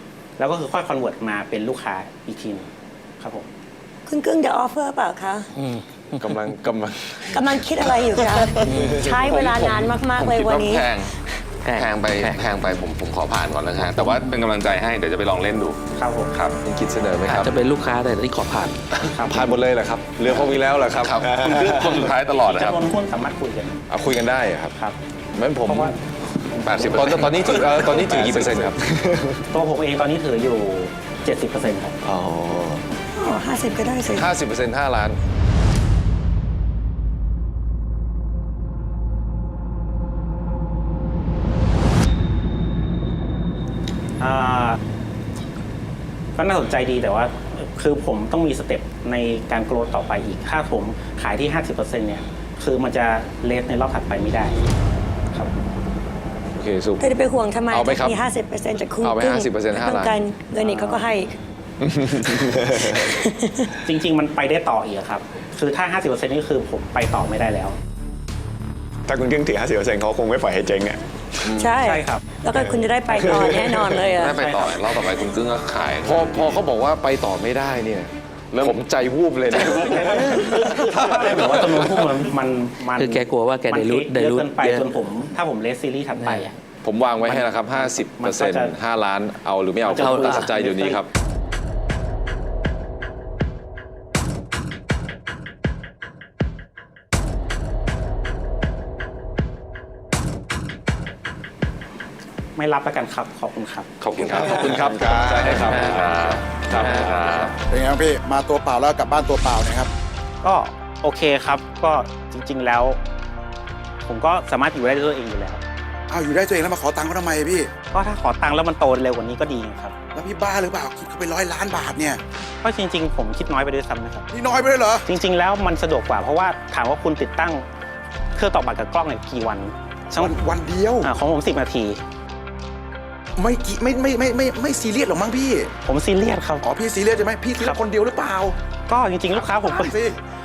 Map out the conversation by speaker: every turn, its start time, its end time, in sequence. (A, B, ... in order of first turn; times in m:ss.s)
0:00.4-0:03.5 A
0:04.1-0:05.5 B
0:06.2-0:07.9 C
0:07.3-0:11.0 B
0:08.6-0:08.9 D
0:08.6-0:09.3 C
0:09.3-0:15.8 E
0:11.7-0:12.4 D
0:16.0-0:16.3 A
0:16.3-0:16.6 E
0:16.6-0:17.5 C
0:17.3-0:18.8 D
0:19.0-0:21.4 C
0:19.1-0:19.5 A
0:21.0-0:22.8 E
0:21.5-0:22.0 F
0:22.4-0:23.8 A
0:23.9-0:24.8 C
0:25.3-0:25.9 C
0:25.7-0:26.0 A
0:26.5-0:27.0 A
0:26.6-0:28.6 E
0:26.7-0:28.8 C
0:28.8-0:29.4 F
0:29.5-0:32.0 A
0:32.0-0:32.8 F
0:33.2-0:34.3 B
0:34.1-0:35.2 C
0:44.2-0:44.8 A
0:46.4-0:54.6 A
0:56.5-0:57.2 C
0:57.0-1:01.3 B
0:57.7-0:58.2 C
0:59.0-1:00.2 C
1:00.6-1:01.1 A
1:01.8-1:03.1 F
1:02.8-1:03.7 B
1:03.8-1:07.8 A
1:09.1-1:11.1 F
1:11.5-1:11.7 E
1:11.6-1:14.4 B
1:11.8-1:12.2 A
1:13.4-1:14.0 F
1:14.2-1:16.6 E
1:14.3-1:14.8 A
1:16.0-1:21.8 C
1:18.5-1:18.8 E
1:19.6-1:26.6 A
1:23.0-1:24.9 D
1:26.2-1:26.4 D
1:26.8-1:31.1 C
1:27.2-1:28.8 A
1:29.9-1:31.0 A
1:30.0-1:30.5 D
1:42.6-1:43.9 A
1:44.0-1:44.9 E
1:44.3-1:45.8 F
1:44.4-1:47.5 C
1:45.7-1:47.6 E
1:47.7-1:49.9 G
1:50.4-1:53.0 A
1:54.1-1:55.6 A
1:56.1-1:57.7 G
1:57.9-1:59.9 A
2:00.1-2:02.2 G
2:02.6-2:04.3 A
2:04.3-2:05.0 G
2:05.1-2:07.6 A
2:08.4-2:10.3 A
2:10.2-2:11.1 G
2:11.0-2:12.0 A
2:13.4-2:15.7 G
2:15.8-2:16.6 A
2:16.6-2:18.6 G
2:18.9-2:20.0 A
2:19.3-2:20.2 G